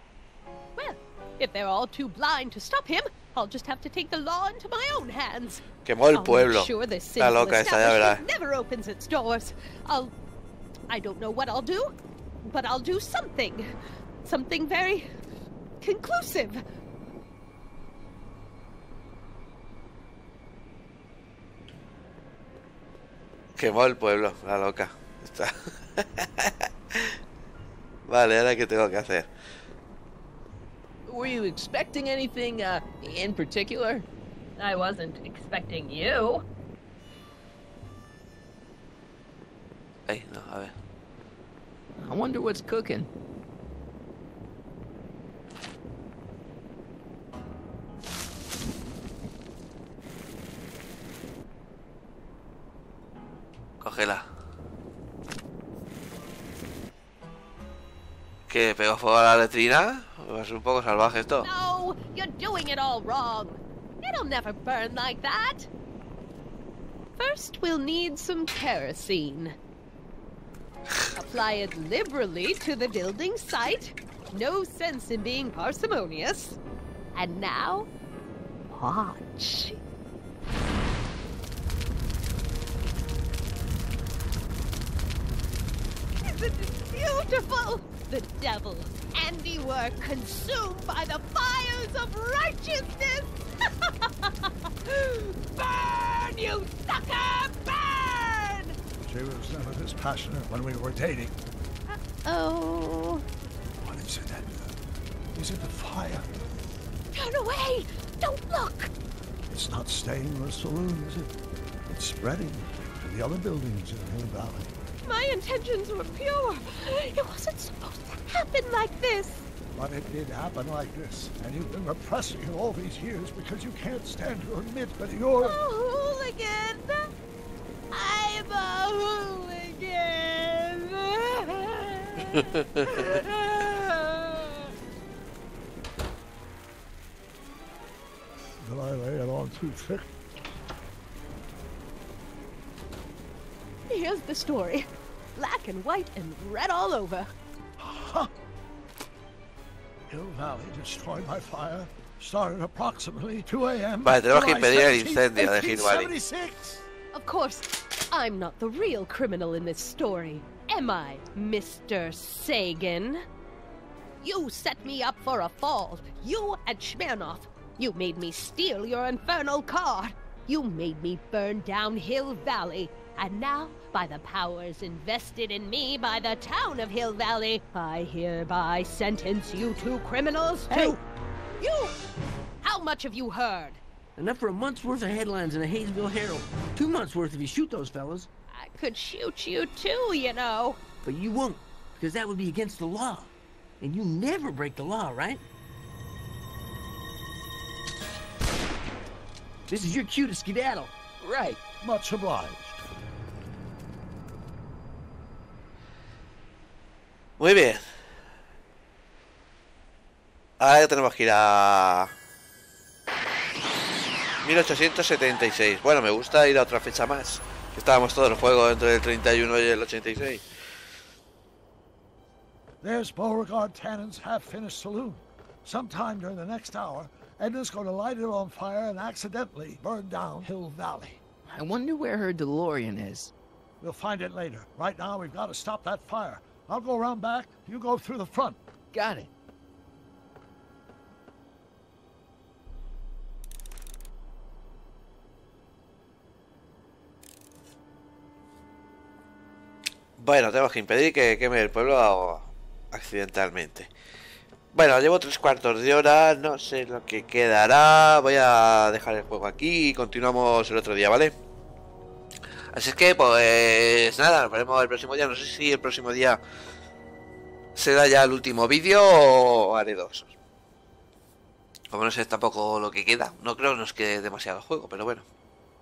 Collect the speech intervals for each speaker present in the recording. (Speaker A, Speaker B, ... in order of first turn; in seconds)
Speaker A: 0.8-10.1, 10.9-13.7, 14.2-15.1, 15.8-16.6, 34.6-36.4, 61.4-65.7, 67.2-69.5, 71.2-76.6, 77.1-77.9, 78.7-79.8, 86.2-98.8, 101.9-103.2, 107.1-108.9, 115.0-119.4, 125.4-127.1, 127.9-134.7, 143.9-147.3, 157.1-163.2, 164.2-181.0, 181.6-181.9, 182.6-183.8, 188.5-190.8
Speaker B: 5.8-8.2, 23.6-27.2, 28.1-29.3, 40.0-40.7, 53.8-54.2, 58.5-61.5, 154.1-156.1, 207.4-207.9, 210.6-212.1, 214.4-220.4, 250.2-253.9, 254.7-261.3, 262.7-266.4, 267.7-270.3, 271.9-275.2
Speaker C: 31.1-34.0, 42.0-43.1, 201.2-201.6, 231.5-233.3, 238.9-239.3
Speaker D: 99.0-101.4, 103.8-104.7, 105.3-106.4, 109.5-111.3, 111.9-114.7, 119.7-125.6, 138.6-140.1, 147.8-148.3, 150.1-156.8, 201.8-202.9, 222.8-231.2, 233.8-238.6
Speaker E: 180.7-181.0, 184.2-188.3, 191.0-195.4, 199.7-200.9